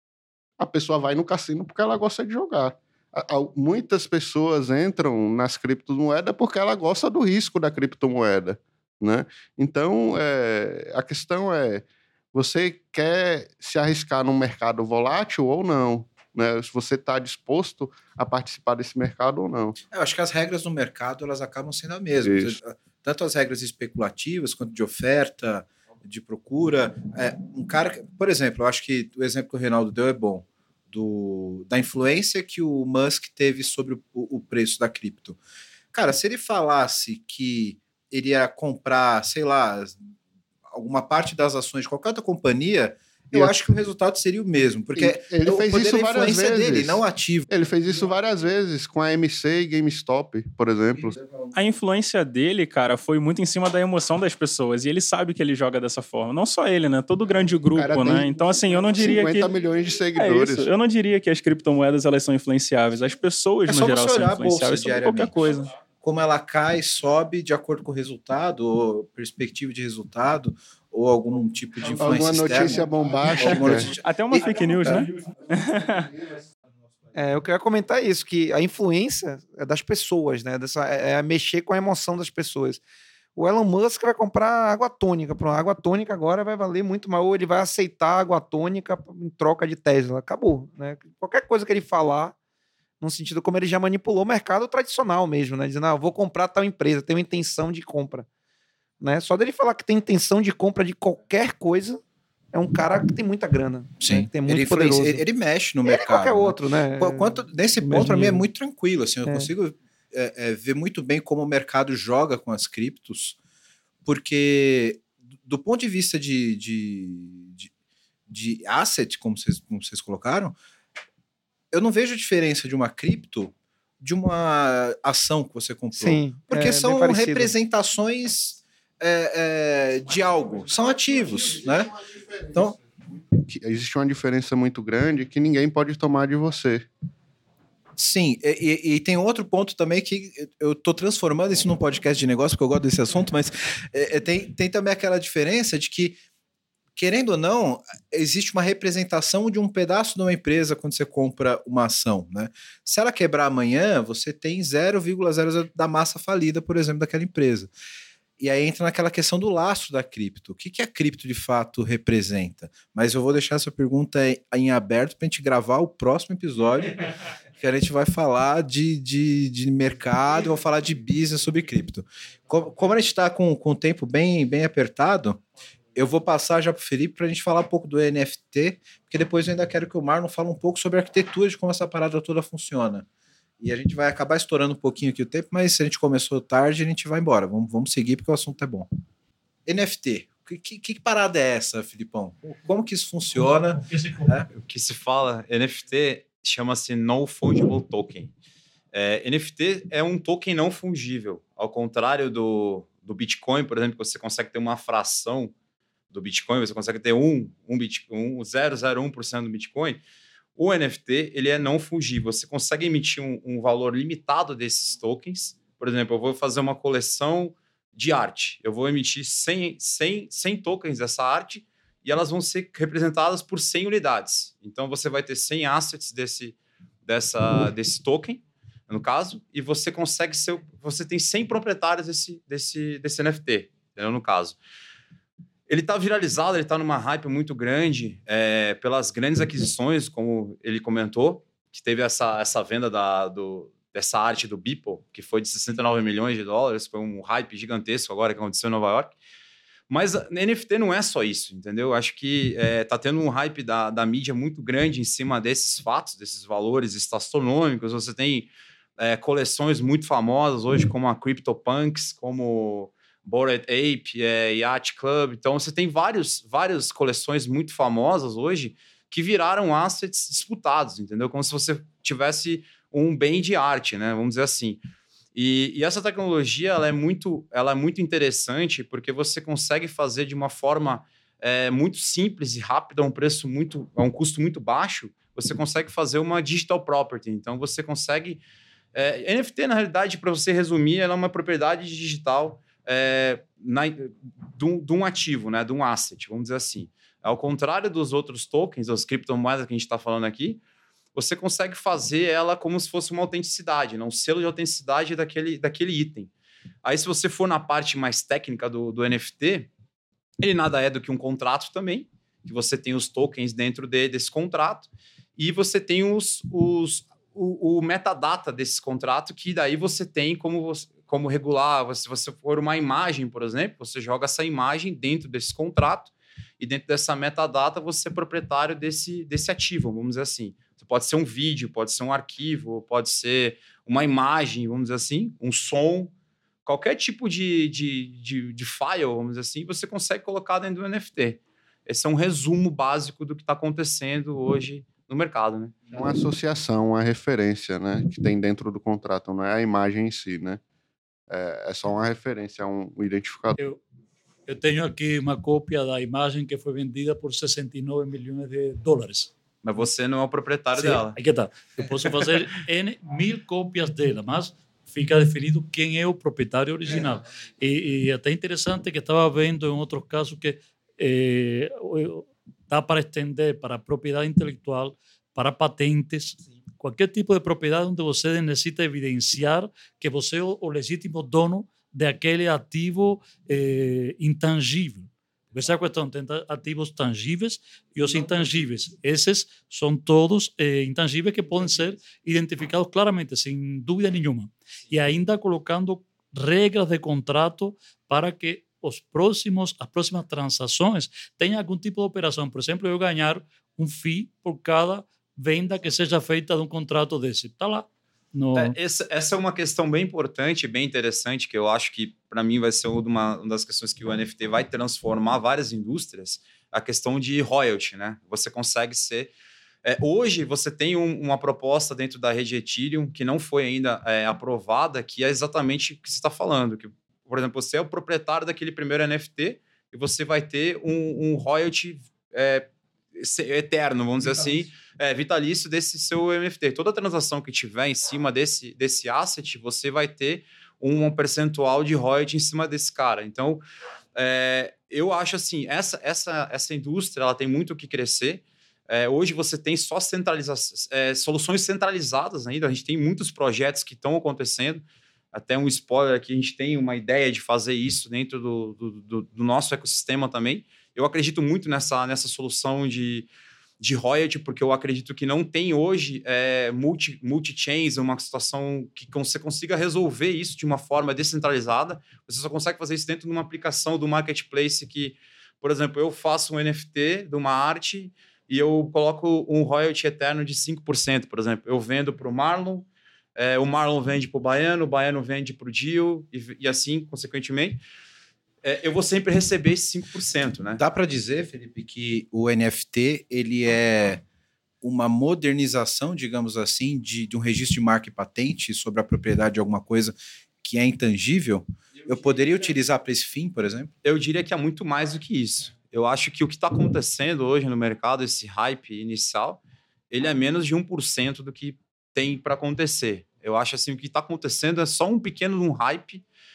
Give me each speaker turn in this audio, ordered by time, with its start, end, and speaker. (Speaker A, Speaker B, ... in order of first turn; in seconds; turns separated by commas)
Speaker A: 0.6-19.8, Speaker B: 19.9-35.4, Speaker A: 22.2-22.5, Speaker B: 35.9-40.0, Speaker B: 40.7-47.5, Speaker A: 45.0-51.2, Speaker B: 51.2-51.5, Speaker C: 51.5-59.5, Speaker A: 57.8-60.7, Speaker C: 60.2-65.7, Speaker B: 63.7-65.4, Speaker B: 66.0-75.1, Speaker A: 72.0-73.9, Speaker C: 73.9-76.1, Speaker D: 77.1-82.8, Speaker D: 83.4-92.3, Speaker D: 93.0-98.3, Speaker D: 99.0-102.0, Speaker D: 102.5-105.2, Speaker B: 104.0-113.4, Speaker D: 105.8-108.5, Speaker B: 114.0-117.7, Speaker B: 118.3-120.6, Speaker B: 121.7-132.0, Speaker D: 126.0-127.5, Speaker B: 132.5-132.8, Speaker A: 133.4-136.9, Speaker B: 138.0-146.2, Speaker B: 147.0-157.7, Speaker B: 158.4-167.0, Speaker B: 167.6-175.4, Speaker B: 175.9-183.1, Speaker B: 183.6-188.9, Speaker B: 189.7-194.5, Speaker E: 193.5-194.3, Speaker F: 194.6-198.3, Speaker F: 198.9-205.5, Speaker F: 206.1-210.0, Speaker F: 210.6-234.6, Speaker F: 235.7-249.1, Speaker F: 249.9-274.8, Speaker F: 275.3-288.4, Speaker F: 288.9-300.6, Speaker F: 301.1-306.3, Speaker F: 306.8-309.7, Speaker F: 310.4-336.1, Speaker F: 336.6-345.8, Speaker A: 345.9-350.6, Speaker A: 351.3-353.6, Speaker E: 354.5-359.3, Speaker F: 359.6-361.2, Speaker E: 360.8-408.8, Speaker F: 408.5-419.3, Speaker F: 419.9-443.6, Speaker F: 444.1-463.3, Speaker F: 463.8-487.8, Speaker F: 488.6-490.8, Speaker B: 490.8-494.2, Speaker B: 494.8-503.9, Speaker F: 504.0-516.2